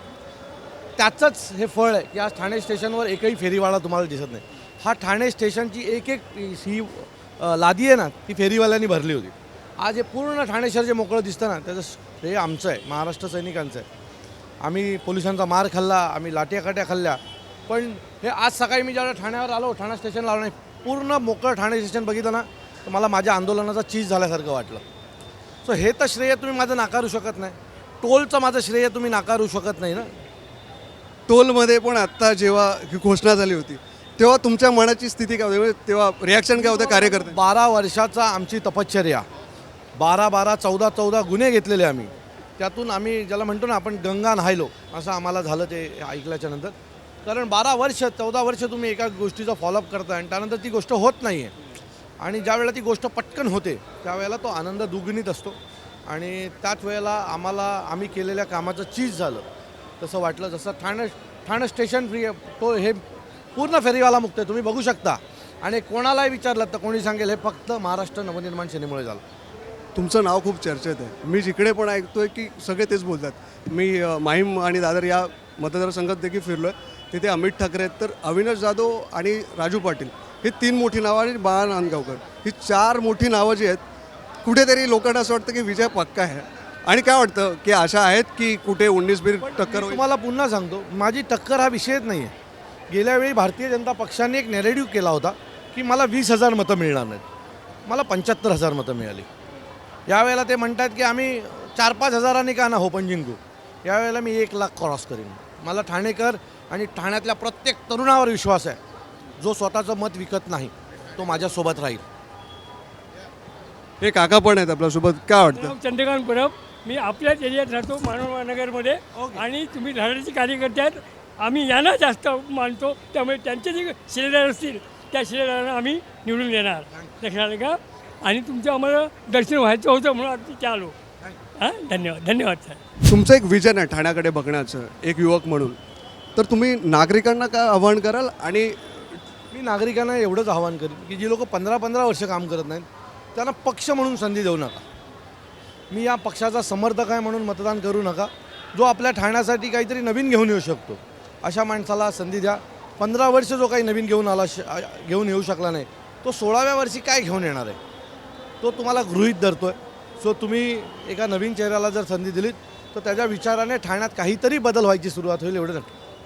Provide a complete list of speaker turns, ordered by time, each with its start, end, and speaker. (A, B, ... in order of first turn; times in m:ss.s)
0:01.0-0:13.8 A
0:14.6-0:24.8 A
0:25.6-0:30.1 A
0:31.3-0:37.4 B
0:36.5-0:39.2 A
0:39.9-0:51.5 A
0:52.2-0:59.4 A
1:00.0-1:03.0 A
1:03.5-1:09.2 A
1:09.9-1:23.8 B
1:24.4-1:30.0 B
1:29.4-1:32.3 A
1:32.9-1:37.2 A
1:37.8-1:39.3 A
1:40.1-1:48.8 A
1:49.4-1:52.0 A
1:54.0-1:55.7 B
1:55.5-2:10.9 C
1:59.1-1:59.4 A
2:11.6-2:12.8 C
2:13.0-2:15.8 B
2:16.4-2:19.2 B
2:19.5-2:24.8 A
2:25.9-2:37.8 A
2:38.6-2:45.9 A